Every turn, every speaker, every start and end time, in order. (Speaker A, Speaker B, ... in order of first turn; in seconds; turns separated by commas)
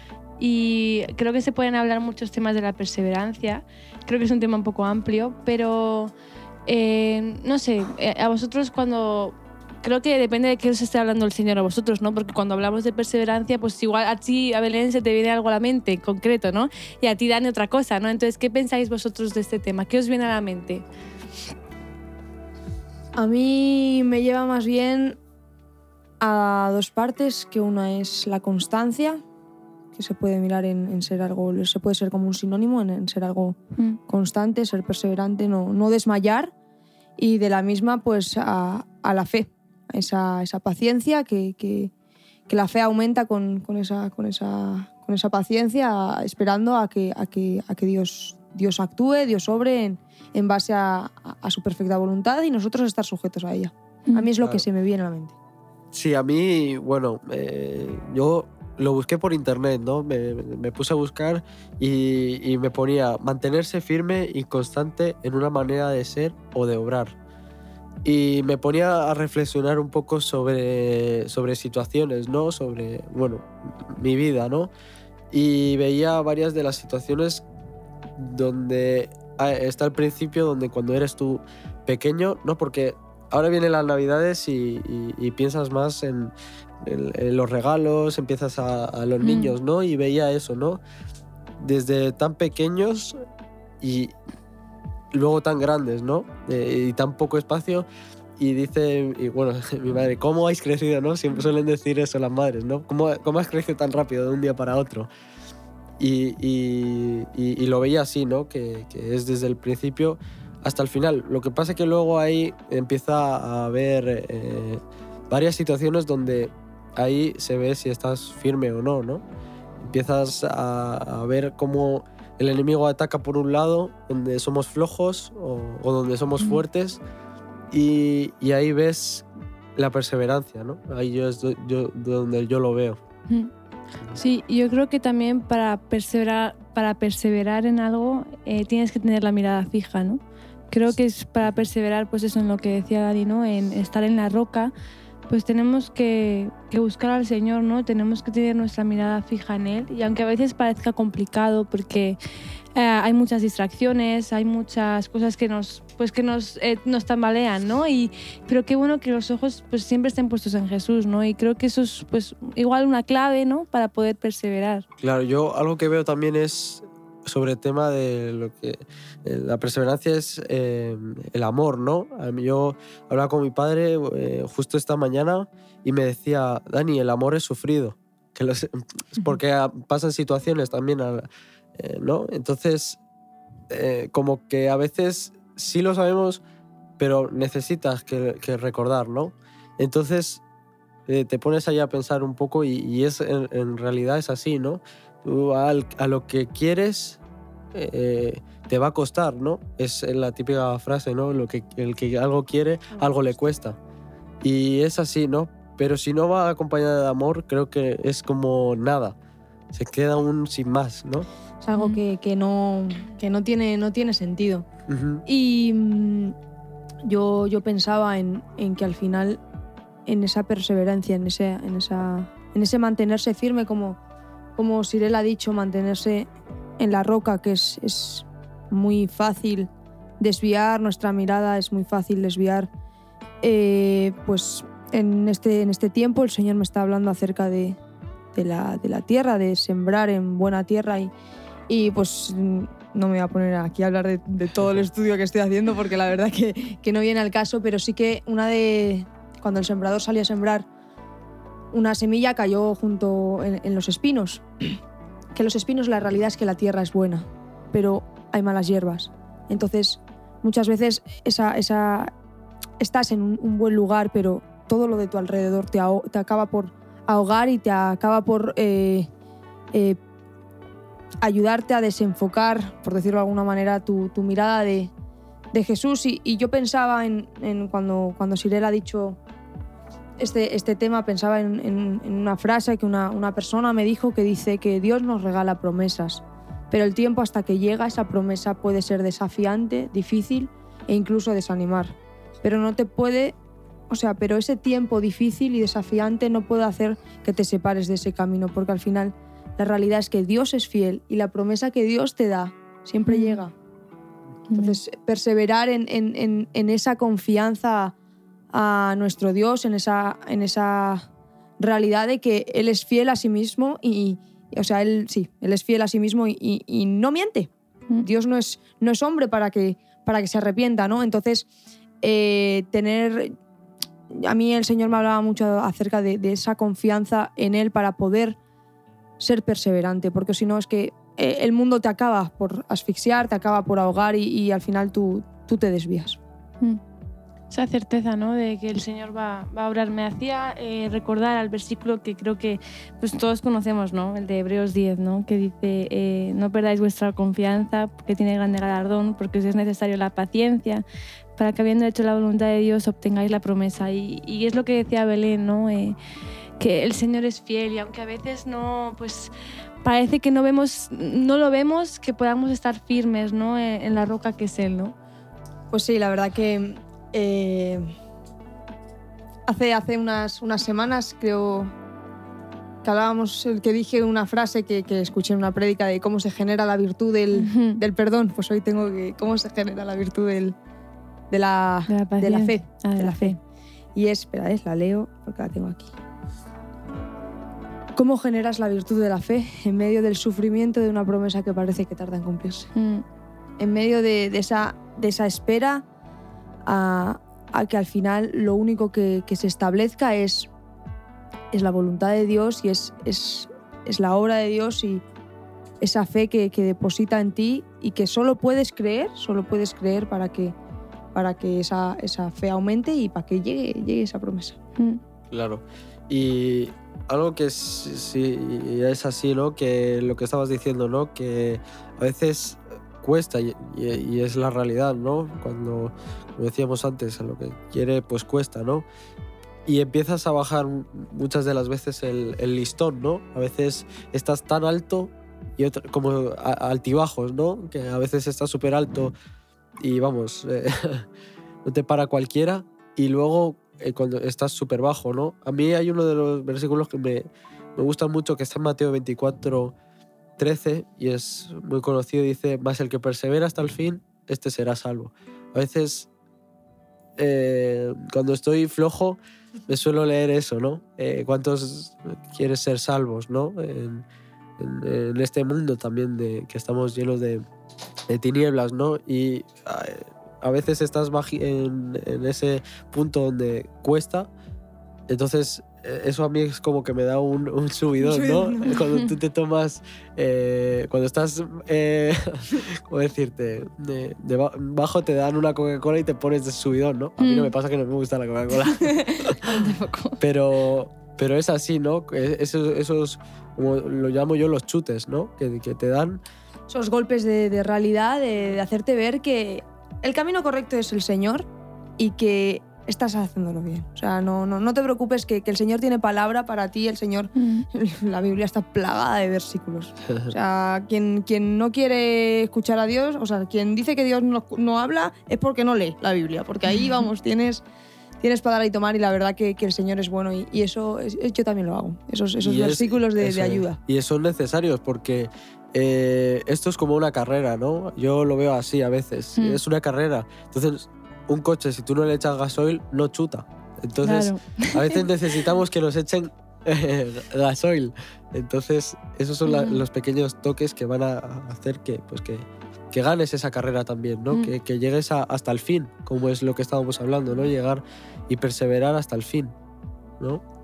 Speaker A: 0.4-6.1, Speaker A: 6.7-20.8, Speaker B: 23.2-25.2, Speaker B: 26.2-29.2, Speaker B: 29.9-33.6, Speaker B: 34.1-36.5, Speaker B: 37.2-41.9, Speaker B: 42.5-55.3, Speaker C: 55.9-67.2, Speaker C: 68.0-74.7, Speaker C: 75.3-77.4, Speaker C: 78.2-90.8, Speaker A: 89.2-89.5, Speaker C: 91.6-93.2, Speaker C: 93.8-94.1, Speaker C: 95.1-97.8, Speaker C: 98.4-105.1, Speaker C: 106.0-119.2, Speaker C: 119.8-127.0, Speaker C: 127.7-133.0, Speaker A: 134.2-144.7, Speaker A: 145.3-152.2, Speaker A: 152.7-164.8, Speaker C: 165.0-183.0, Speaker C: 183.7-186.4, Speaker C: 187.0-190.4, Speaker C: 191.1-197.2, Speaker C: 197.7-203.8, Speaker C: 204.4-209.2, Speaker C: 209.7-211.3, Speaker B: 211.6-214.7, Speaker A: 211.7-212.0, Speaker C: 214.9-215.2, Speaker B: 215.2-216.3, Speaker B: 217.0-219.4, Speaker B: 220.1-224.0, Speaker B: 224.6-232.7, Speaker B: 233.4-237.8, Speaker B: 238.3-241.1, Speaker B: 241.7-250.7, Speaker B: 251.7-254.8, Speaker B: 255.3-262.1, Speaker B: 262.8-269.1, Speaker B: 269.7-270.0, Speaker B: 271.2-274.9, Speaker B: 275.5-279.2, Speaker B: 280.2-293.4, Speaker B: 293.9-303.5, Speaker A: 303.1-303.4, Speaker A: 304.5-304.8, Speaker B: 304.5-307.9, Speaker B: 308.5-311.1, Speaker B: 311.6-321.5, Speaker B: 322.0-323.3, Speaker B: 324.1-328.4, Speaker B: 329.2-336.2, Speaker A: 337.5-350.8, Speaker A: 351.4-356.0, Speaker A: 356.6-359.3, Speaker A: 359.8-364.9, Speaker B: 365.7-367.9, Speaker B: 369.5-371.7, Speaker B: 372.8-380.6, Speaker A: 377.3-377.8, Speaker B: 381.3-383.4, Speaker A: 381.9-383.4, Speaker B: 383.9-385.9, Speaker B: 387.9-392.7, Speaker A: 392.8-393.0, Speaker B: 393.6-395.8, Speaker B: 396.6-400.5, Speaker B: 401.5-405.0, Speaker B: 405.8-410.6, Speaker B: 411.1-414.6, Speaker C: 415.3-428.9, Speaker C: 429.6-439.1, Speaker C: 439.8-441.1, Speaker C: 441.6-449.7, Speaker C: 450.4-456.1, Speaker C: 457.2-464.1, Speaker C: 464.6-467.4, Speaker C: 468.1-474.3, Speaker C: 475.1-489.5, Speaker B: 478.0-478.8, Speaker A: 487.2-487.5, Speaker A: 488.7-490.2, Speaker C: 490.2-496.2, Speaker B: 496.7-501.5, Speaker B: 502.0-517.6, Speaker A: 507.4-507.7, Speaker B: 518.2-523.8, Speaker C: 522.4-549.5, Speaker A: 529.4-529.6, Speaker A: 534.0-535.1, Speaker A: 539.5-539.8